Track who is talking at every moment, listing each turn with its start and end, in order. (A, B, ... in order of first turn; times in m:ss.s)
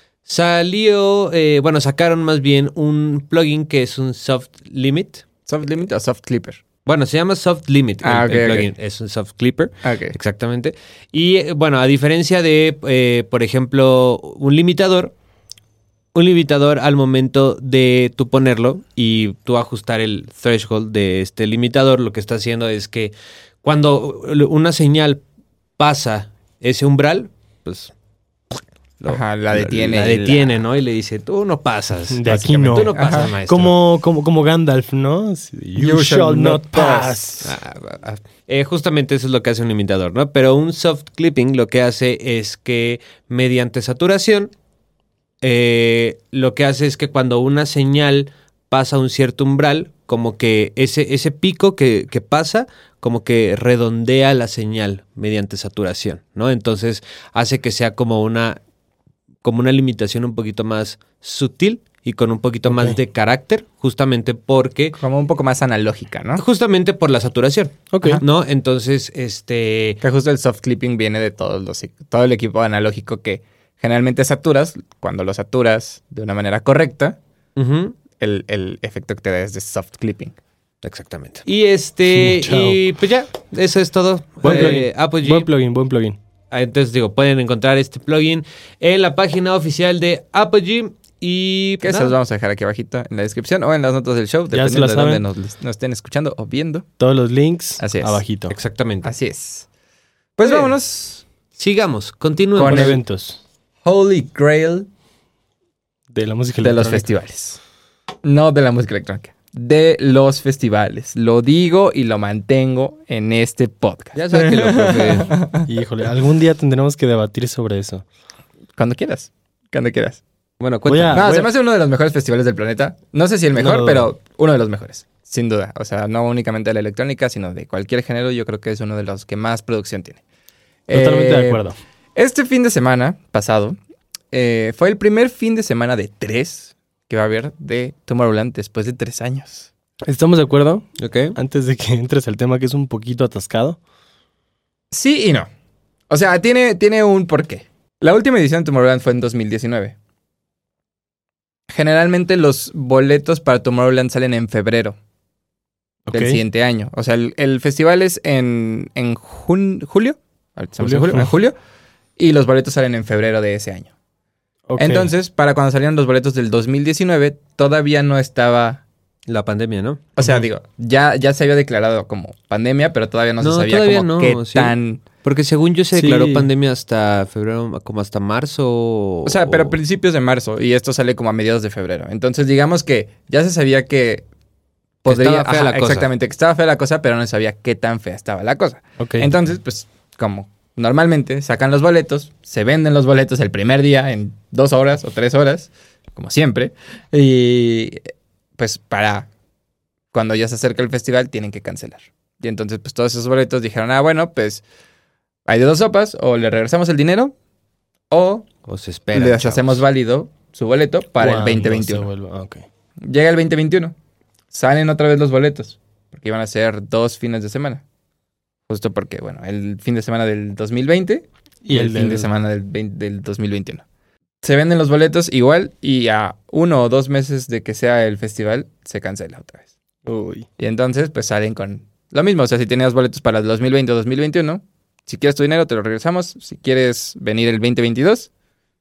0:00.2-0:05.2 A
0:05.5-0:06.6 B
0:06.8-0:15.1 A
0:08.0-0:08.7 B
0:09.8-0:10.2 B
0:16.1-0:25.2 A
0:25.8-0:27.9 A
0:29.0-0:33.7 A
0:29.1-0:30.6 B
0:32.1-0:37.5 C
0:32.3-0:33.3 B
0:35.8-0:37.2 B
0:37.4-0:44.5 A
0:45.4-0:58.6 A
0:59.4-1:05.0 A
1:02.7-1:03.0 C
1:05.0-1:06.4 B
1:06.4-1:10.0 A
1:07.9-1:08.2 C
1:10.0-1:17.2 B
1:17.6-1:18.0 A
1:18.2-1:20.4 B
1:20.8-1:25.5 A
1:22.1-1:22.8 C
1:24.4-1:26.2 C
1:24.4-1:24.8 B
1:26.5-1:32.2 A
1:31.8-1:36.9 B
1:34.5-1:35.2 C
1:37.0-1:38.5 C
1:37.8-1:38.2 B
1:38.5-1:39.1 A
1:39.0-1:39.7 B
1:40.4-1:41.2 B
1:41.5-1:43.0 A
1:42.6-1:43.0 B
1:42.6-1:43.4 C
1:43.8-1:44.9 B
1:46.1-1:47.1 C
1:46.6-1:47.6 B
1:48.2-1:55.7 B
1:54.2-1:55.4 A
1:55.6-1:58.0 C
1:58.8-2:00.2 B
2:00.6-2:01.2 A
2:00.9-2:01.5 C
2:01.1-2:10.2 B
2:03.6-2:04.1 C
2:10.9-2:11.6 B
2:10.9-2:11.8 C
2:12.2-2:13.8 B
2:14.3-2:19.7 B
2:20.0-2:23.8 C
2:21.0-2:21.4 A
2:24.9-2:25.5 B
2:26.1-2:30.0 B
2:31.7-2:35.0 B
2:36.1-2:36.4 C
2:36.1-2:41.6 B
2:40.8-2:41.3 C
2:42.2-2:43.9 B
2:44.7-2:45.1 C
2:44.8-2:48.8 B
2:49.3-2:50.0 A
2:50.2-2:55.0 B
2:53.4-2:59.8 A
2:55.9-2:56.5 C
2:59.2-3:04.3 B
3:05.0-3:06.1 A
3:05.0-3:19.3 B
3:09.0-3:09.3 C
3:20.1-3:24.6 B
3:25.5-3:27.3 B
3:28.1-3:28.5 B
3:28.7-3:29.8 A
3:29.1-3:32.1 B
3:31.2-3:32.6 C
3:33.0-3:34.0 B
3:34.5-3:37.8 B
3:38.7-3:43.8 B
3:41.7-3:42.3 C
3:44.4-3:49.7 B
3:50.1-3:50.5 C
3:50.6-3:58.3 B